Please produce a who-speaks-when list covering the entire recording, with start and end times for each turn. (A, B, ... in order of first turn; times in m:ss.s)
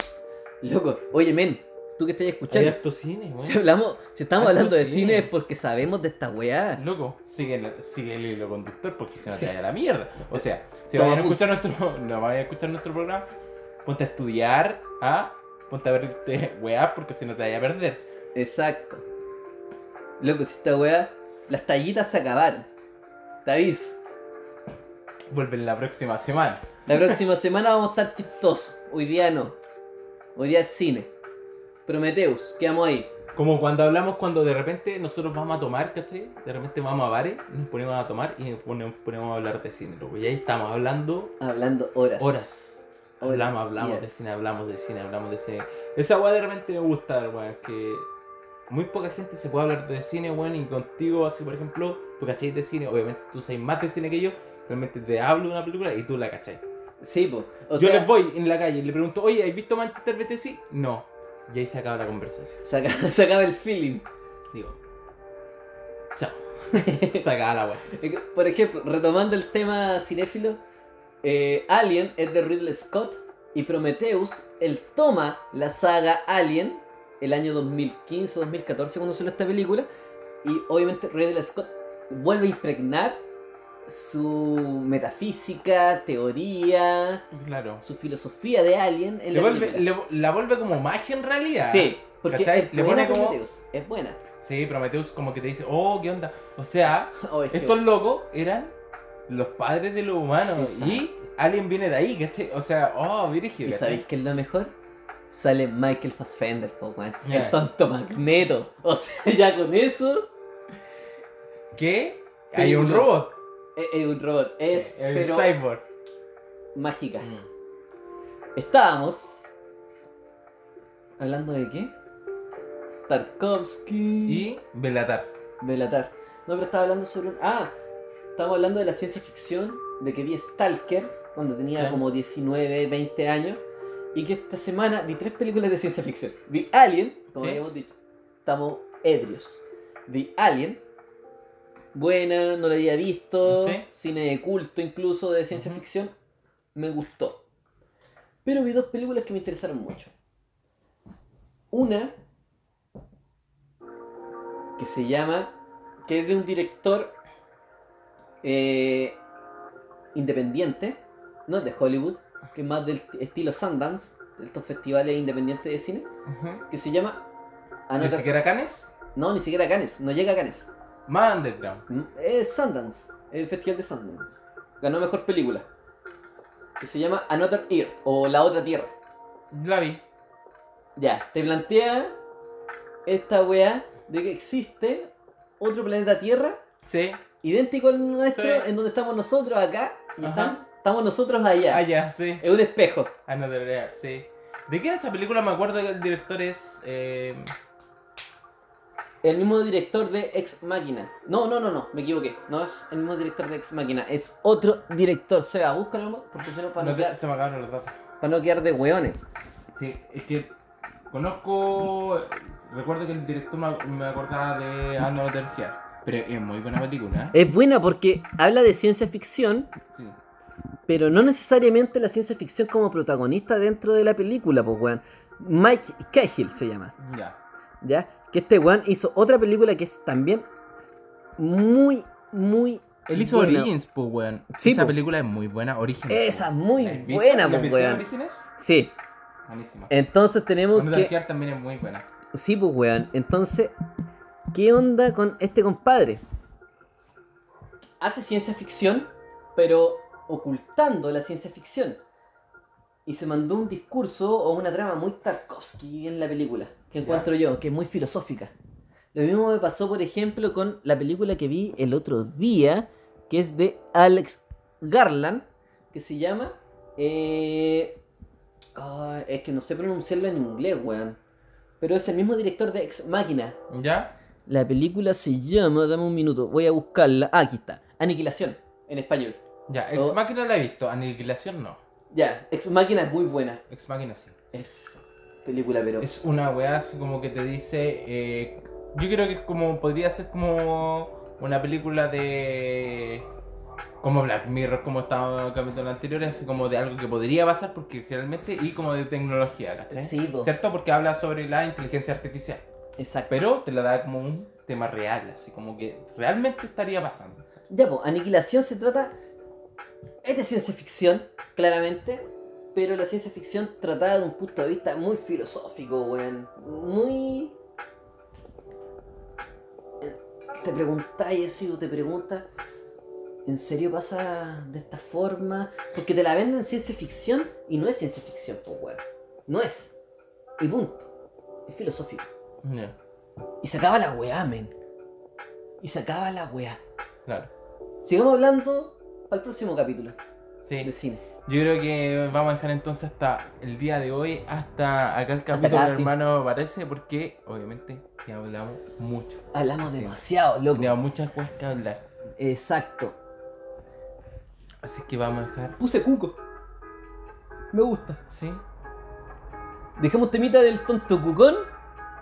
0:00.6-0:02.8 A
0:02.5-0:03.6 B
0:03.4-0:06.8 A
0:04.4-0:05.3 B
0:06.8-0:13.3 B
0:09.3-0:09.5 A
0:10.3-0:11.4 A
0:13.8-0:18.0 B
0:18.3-0:19.0 A
0:20.2-0:22.7 A
0:23.4-0:24.0 A
0:25.3-0:27.2 B
0:26.9-0:29.6 A
0:30.4-0:31.1 A
0:31.8-0:33.1 A
0:33.3-0:41.3 B
0:41.4-0:42.4 A
0:42.2-0:48.1 B
0:43.2-0:44.0 A
0:48.7-0:56.6 B
0:57.0-0:58.1 A
0:57.7-1:02.6 B
1:02.6-1:04.0 A
1:04.5-1:04.8 B
1:06.1-1:07.8 B
1:06.7-1:07.3 A
1:07.9-1:10.6 A
1:11.2-1:19.9 A
1:20.4-1:23.2 A
1:23.8-1:27.2 A
1:27.3-1:27.8 B
1:27.8-1:29.8 A
1:29.3-1:33.4 B
1:31.6-1:34.2 A
1:34.4-1:38.7 B
1:37.1-1:37.8 A
1:39.3-1:44.0 B
1:40.5-1:41.2 A
1:43.6-1:44.7 A
1:45.3-1:50.3 A
1:47.2-1:47.6 B
1:51.7-1:53.3 B
1:52.5-1:53.1 A
1:53.8-1:55.5 A
1:54.7-1:55.8 B
1:56.7-1:57.3 A
1:57.2-1:57.5 B
1:58.6-1:59.5 A
2:01.2-2:01.9 A
2:03.1-2:04.5 A
2:04.2-2:05.3 B
2:05.6-2:07.7 A
2:08.4-2:13.6 A
2:11.7-2:12.0 B
2:14.1-2:20.8 A
2:17.4-2:17.6 B
2:21.9-2:26.1 A
2:23.4-2:23.8 B
2:25.5-2:25.8 B
2:26.7-2:27.4 A
2:28.4-2:30.1 A
2:31.7-2:32.2 A
2:34.8-2:35.5 A
2:36.0-2:37.1 A
2:38.4-2:39.2 A
2:40.1-2:46.1 A
2:46.2-2:46.6 B
2:46.7-2:47.2 A
2:47.9-2:48.3 A
2:48.0-2:48.9 B
2:49.1-2:50.7 A
2:51.1-2:51.8 B
2:51.9-2:55.7 A
2:56.8-2:58.9 A
2:59.5-3:00.0 B
3:01.0-3:02.2 A
3:03.0-3:06.6 A
3:06.8-3:07.2 B
3:07.4-3:11.8 A
3:08.3-3:08.6 B
3:10.2-3:10.6 B
3:11.7-3:12.4 B
3:12.4-3:13.1 A
3:13.3-3:17.5 B
3:19.2-3:27.2 A
3:26.8-3:28.0 B
3:28.2-3:29.2 A
3:29.7-3:30.5 B
3:31.1-3:37.4 B
3:37.3-3:39.7 A
3:40.9-3:47.0 A
3:47.0-3:47.4 B
3:47.8-3:50.5 A
3:51.4-3:53.7 A
3:53.1-3:58.5 B
3:54.5-3:55.0 A
3:56.1-3:58.9 A
3:59.5-3:59.9 B
3:59.9-4:01.1 A
4:00.7-4:02.0 B
4:02.3-4:03.7 A
4:04.5-4:06.2 A
4:08.0-4:12.0 A
4:13.0-4:18.5 A
4:17.0-4:17.3 B
4:19.1-4:28.0 A
4:28.8-4:31.2 A
4:31.8-4:33.6 A
4:33.7-4:34.1 B
4:34.4-4:39.4 A
4:39.7-4:41.8 B
4:42.1-4:43.6 A
4:43.7-4:44.5 B
4:44.5-4:46.1 A
4:46.0-4:53.3 B
4:54.0-5:02.6 B
4:59.9-5:00.5 A
5:03.0-5:03.4 A
5:03.3-5:07.5 B
5:07.7-5:09.1 A
5:10.2-5:17.5 A
5:20.0-5:22.4 A
5:23.4-5:29.9 A
5:30.6-5:31.1 A
5:31.7-5:32.3 A
5:32.6-5:33.0 B
5:33.6-5:34.7 A
5:35.8-5:36.8 A
5:37.2-5:37.5 B
5:38.0-5:40.2 A
5:40.6-5:40.9 B
5:40.8-5:41.2 A
5:41.4-5:50.2 B
5:45.5-5:46.1 A
5:49.5-5:51.0 A
5:50.7-5:52.0 B
5:52.4-5:53.2 A
5:54.8-5:55.8 B
5:55.8-5:56.4 A
5:57.7-5:58.2 A
5:58.3-5:58.6 B
6:00.0-6:01.7 A